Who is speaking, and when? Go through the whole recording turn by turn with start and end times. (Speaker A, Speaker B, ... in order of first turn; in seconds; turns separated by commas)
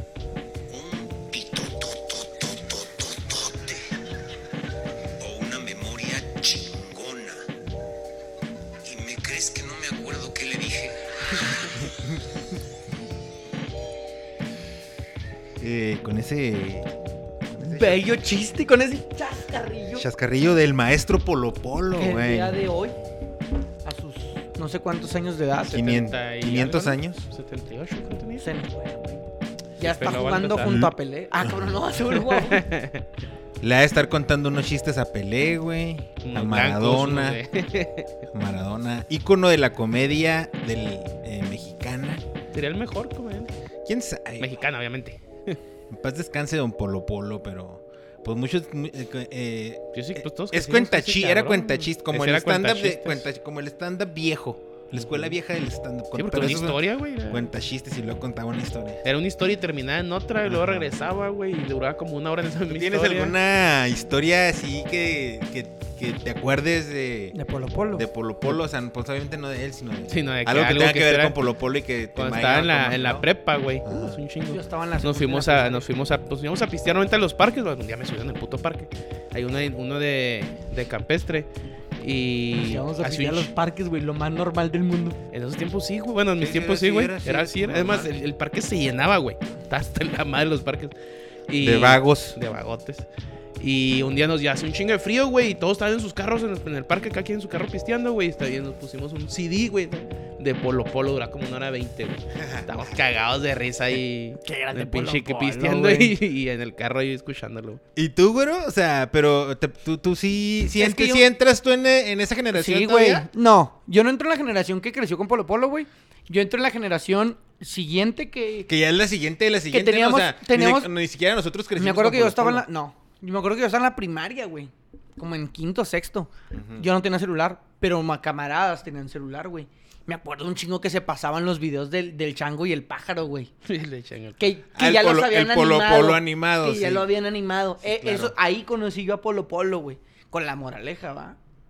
Speaker A: 0.7-3.9, Speaker A: 5.2-7.5, Speaker A: 8.8-12.6, Speaker A: 15.6-16.9, Speaker A: 17.5-18.2, Speaker B: 17.6-20.1, Speaker A: 20.0-22.6, Speaker B: 22.0-23.0, Speaker B: 23.8-25.9, Speaker C: 25.7-28.5, Speaker A: 25.7-27.2, Speaker B: 28.4-29.2, Speaker B: 29.8-32.6, Speaker C: 29.9-30.8, Speaker A: 30.6-30.9, Speaker A: 31.4-31.8, Speaker C: 32.1-33.0, Speaker A: 33.6-37.4, Speaker C: 36.2-38.2, Speaker A: 38.3-42.2, Speaker C: 42.5-43.5, Speaker A: 43.9-44.5, Speaker C: 44.4-45.6, Speaker A: 45.9-59.0, Speaker C: 49.9-53.2, Speaker C: 54.9-55.3, Speaker C: 56.1-57.5, Speaker C: 59.0-63.3, Speaker A: 60.4-60.9, Speaker A: 62.7-67.3, Speaker B: 67.3-68.0, Speaker A: 67.9-73.2, Speaker C: 70.1-71.4, Speaker C: 72.1-83.5, Speaker A: 73.8-74.2, Speaker B: 74.5-75.9, Speaker B: 82.5-85.2, Speaker C: 85.3-90.9, Speaker A: 86.4-88.2, Speaker C: 91.5-93.0, Speaker A: 91.6-92.4, Speaker C: 93.6-107.8, Speaker A: 102.3-102.8, Speaker B: 104.4-106.2, Speaker A: 108.0-113.2, Speaker B: 110.7-111.3, Speaker B: 112.5-118.7, Speaker A: 118.7-122.6, Speaker B: 119.7-120.9, Speaker B: 121.8-133.5, Speaker A: 126.5-126.9, Speaker C: 133.7-134.4, Speaker B: 134.4-141.4, Speaker A: 134.7-137.1, Speaker A: 137.9-138.3